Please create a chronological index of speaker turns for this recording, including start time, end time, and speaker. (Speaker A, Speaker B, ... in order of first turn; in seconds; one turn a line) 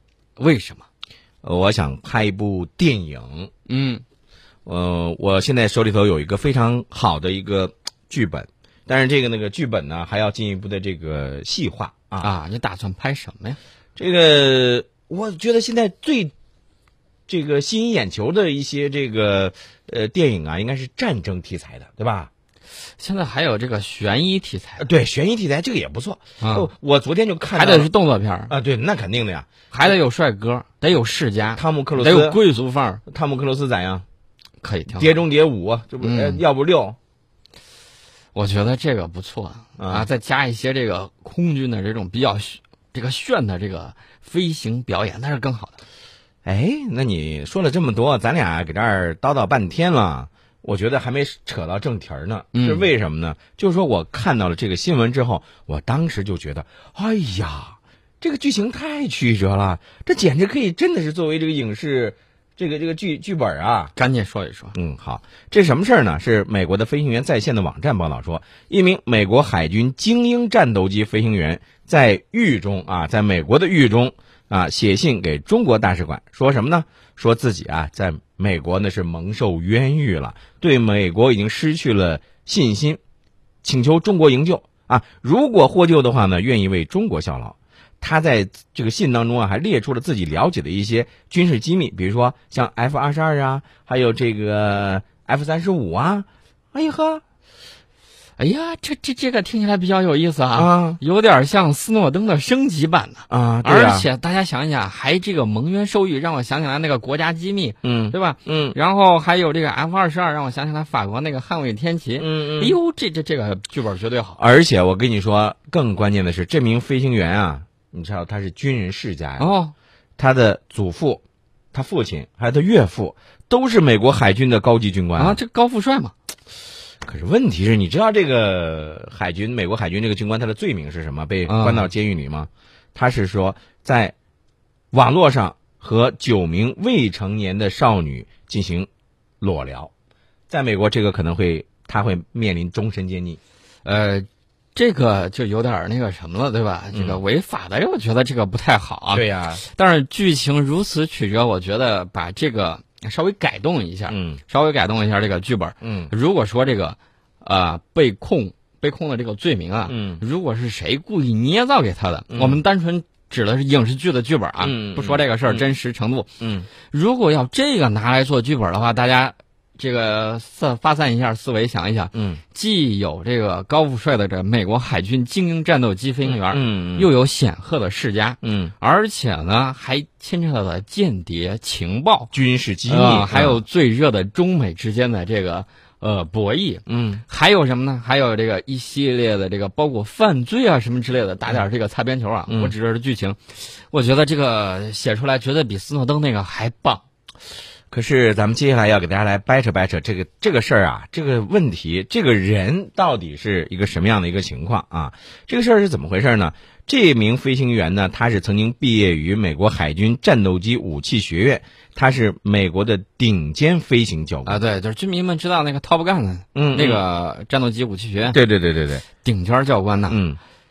Speaker A: 0.4-0.8
Speaker B: 1.4-3.5
Speaker A: 3.7-4.0
Speaker B: 4.7-12.3
Speaker A: 12.2-13.6
Speaker B: 14.0-16.3
Speaker B: 17.3-22.3
Speaker A: 23.0-24.9
Speaker B: 24.8-27.9
Speaker A: 26.4-26.7
Speaker A: 27.5-28.5
Speaker B: 28.5-29.9
Speaker A: 29.7-33.0
Speaker B: 31.6-32.4
Speaker B: 33.1-34.0
Speaker A: 34.6-35.2
Speaker B: 34.9-37.0
Speaker A: 36.0-36.4
Speaker A: 38.4-45.8
Speaker B: 39.8-40.1
Speaker B: 46.5-63.9
Speaker A: 52.5-52.9
Speaker A: 64.0-64.8
Speaker B: 64.8-83.0
Speaker B: 83.6-97.2
Speaker A: 98.4-114.4
Speaker B: 100.5-101.0
Speaker B: 103.3-104.1
Speaker B: 107.8-108.8
Speaker B: 112.2-112.8
Speaker B: 114.4-119.5
Speaker A: 119.4-119.7
Speaker B: 120.2-125.4
Speaker A: 125.2-126.1
Speaker B: 127.0-134.1
Speaker A: 131.5-131.9
Speaker B: 134.9-138.9
Speaker B: 139.4-139.9
Speaker B: 140.5-143.4
Speaker A: 143.8-166.3
Speaker B: 146.9-147.2
Speaker B: 149.1-149.6
Speaker B: 154.1-154.4
Speaker B: 155.8-156.1
Speaker B: 159.9-160.2
Speaker B: 162.3-162.6
Speaker B: 164.6-165.7
Speaker B: 166.4-166.7
Speaker A: 166.9-182.3
Speaker B: 172.1-172.4
Speaker B: 176.3-177.1
Speaker B: 178.4-178.7
Speaker B: 182.3-183.6
Speaker A: 182.9-197.0
Speaker B: 186.9-187.2
Speaker B: 192.5-192.7
Speaker B: 197.9-214.6
Speaker A: 214.5-218.4
Speaker B: 216.6-217.0
Speaker B: 218.3-219.1
Speaker A: 219.2-220.2
Speaker B: 220.1-220.4